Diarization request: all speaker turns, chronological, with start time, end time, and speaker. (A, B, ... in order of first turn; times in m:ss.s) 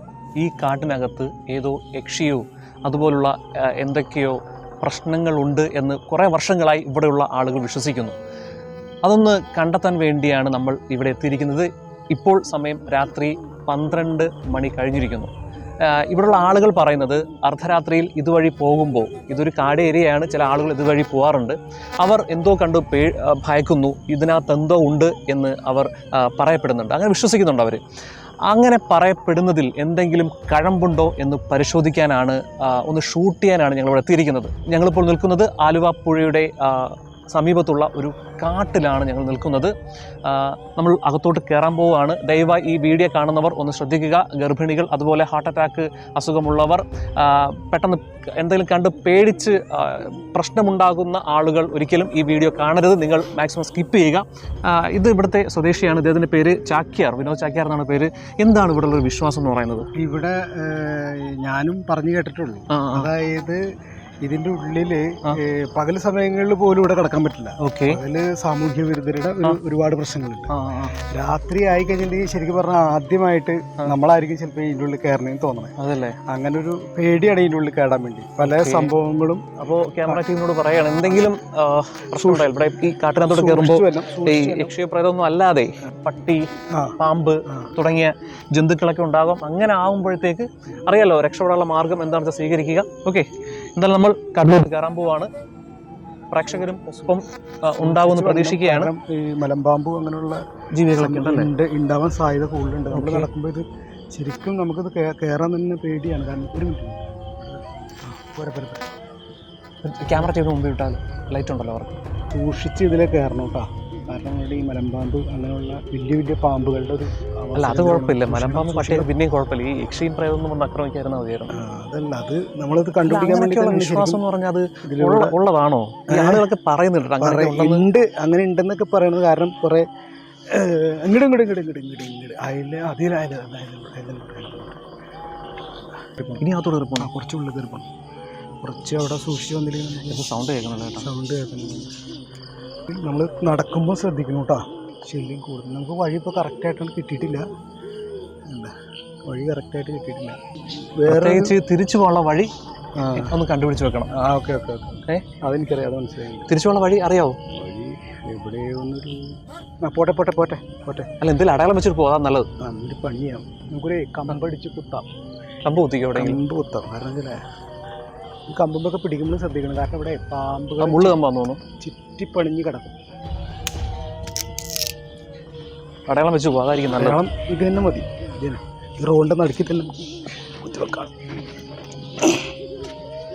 0:00.4-0:08.2 A
0:09.0-0:15.3 A
0:15.8-0:27.8 A
0:28.5-0:39.7 A
0:40.2-0:59.8 A
0:59.9-1:03.6 B
1:02.7-1:03.1 A
1:04.2-1:10.5 B
1:07.6-1:08.0 A
1:10.5-1:10.9 A
1:11.1-1:15.7 B
1:15.8-1:16.2 A
1:16.3-1:21.3 B
1:18.4-1:18.9 A
1:19.6-1:26.4 A
1:22.1-1:22.5 B
1:23.2-1:24.7 B
1:26.7-1:27.7 B
1:27.0-1:35.3 A
1:36.3-1:38.9 A
1:37.8-1:48.9 B
1:40.7-1:41.5 A
1:42.9-1:43.3 A
1:49.8-1:52.0 A
1:52.3-1:59.1 B
1:57.5-2:01.5 A
2:01.5-2:04.2 B
2:03.0-2:07.8 A
2:04.8-2:05.4 B
2:06.1-2:06.5 B
2:07.2-2:09.8 B
2:10.5-2:14.8 B
2:16.2-2:16.4 B
2:16.4-2:17.1 A
2:17.0-2:17.9 B
2:18.6-2:20.2 B
2:20.1-2:21.1 A
2:21.0-2:21.9 B
2:22.9-2:27.4 B
2:28.5-2:28.7 B
2:29.2-2:30.4 B
2:31.0-2:31.5 B
2:31.1-2:32.5 A
2:33.0-2:33.4 B
2:33.1-2:34.1 A
2:34.1-2:36.5 B
2:36.5-2:37.4 A
2:37.5-2:41.1 B
2:41.2-2:42.5 A
2:42.6-2:45.1 B
2:45.6-2:46.4 A
2:46.1-2:47.4 B
2:48.5-2:51.2 B
2:50.8-2:51.6 A
2:51.8-2:53.0 B
2:56.1-2:57.2 A
2:56.9-3:00.0 B
3:00.6-3:01.2 B
3:02.2-3:02.5 B